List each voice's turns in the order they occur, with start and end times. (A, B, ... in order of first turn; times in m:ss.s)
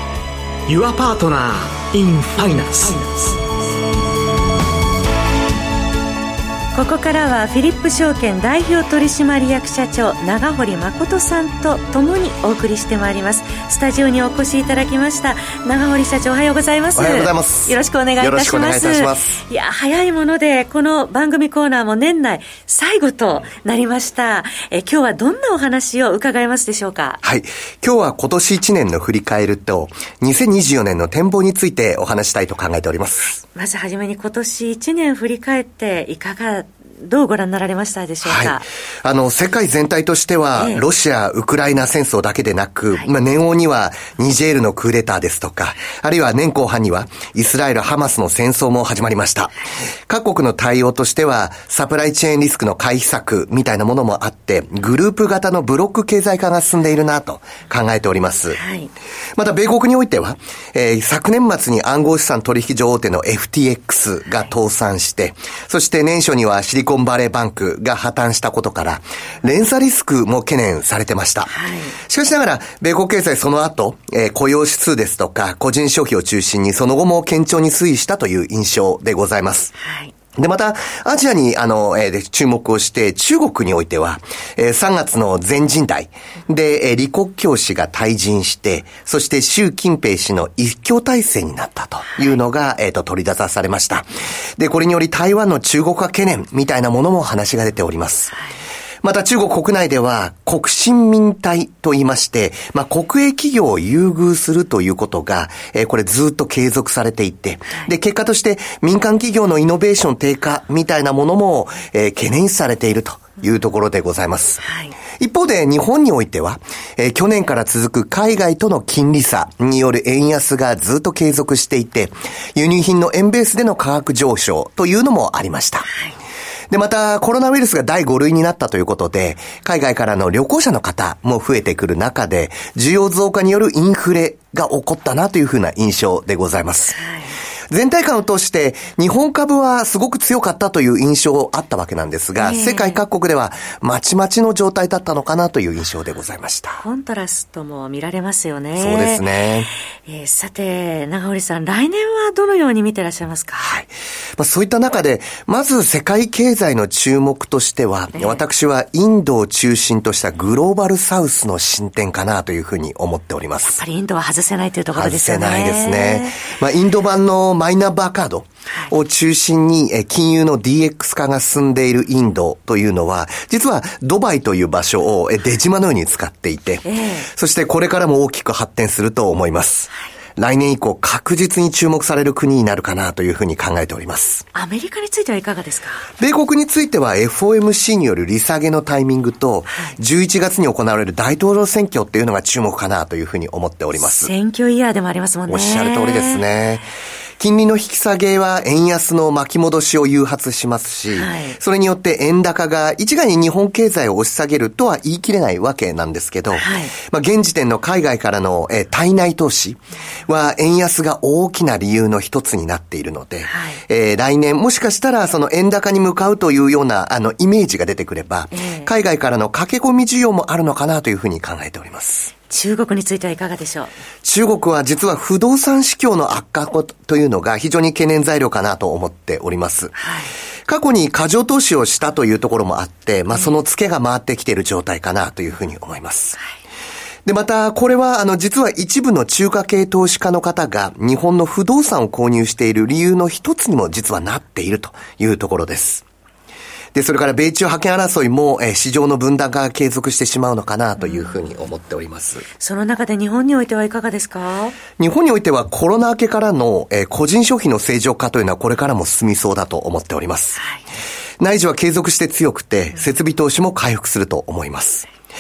0:00.7-0:03.3 A
0:06.7-0:27.2 B
0:17.0-0:19.4 C
0:27.2-0:33.4 C
0:33.2-0:38.7 B
0:38.2-0:58.6 C
0:40.6-0:40.8 B
0:58.6-0:58.9 B
0:59.4-1:19.7 C
1:11.5-1:12.0 B
1:19.8-1:20.1 B
1:20.4-1:38.4 C
1:39.0-1:54.6 C
1:54.6-1:54.9 B
1:55.2-2:05.9 C
2:05.9-2:06.2 B
2:06.7-2:17.0 C
2:16.9-2:17.4 B
2:17.7-2:26.8 C
2:22.4-2:23.0 B
2:26.8-2:29.3 B
2:28.8-2:29.7 C
2:30.0-2:33.8 B
2:33.6-2:43.8 C
2:38.1-2:38.4 B
2:43.7-2:46.4 B
2:44.9-3:04.4 C
2:56.8-2:57.3 B
3:04.5-3:06.1 B
3:06.2-3:14.3 C
3:14.0-3:16.4 B
3:15.5-3:16.9 C
3:17.4-3:42.3 C
3:21.1-3:21.6 B
3:26.5-3:26.9 B
3:33.5-3:33.8 B
3:38.5-3:38.9 B
3:42.5-3:44.0 B
3:44.2-3:49.9 C
3:50.0-3:50.3 B
3:50.7-3:56.4 C
3:57.2-4:06.0 C
4:06.9-4:12.4 C
4:11.0-4:11.3 B
4:12.6-4:14.8 B
4:15.0-4:20.6 C
4:20.6-4:20.8 B
4:21.4-4:25.1 C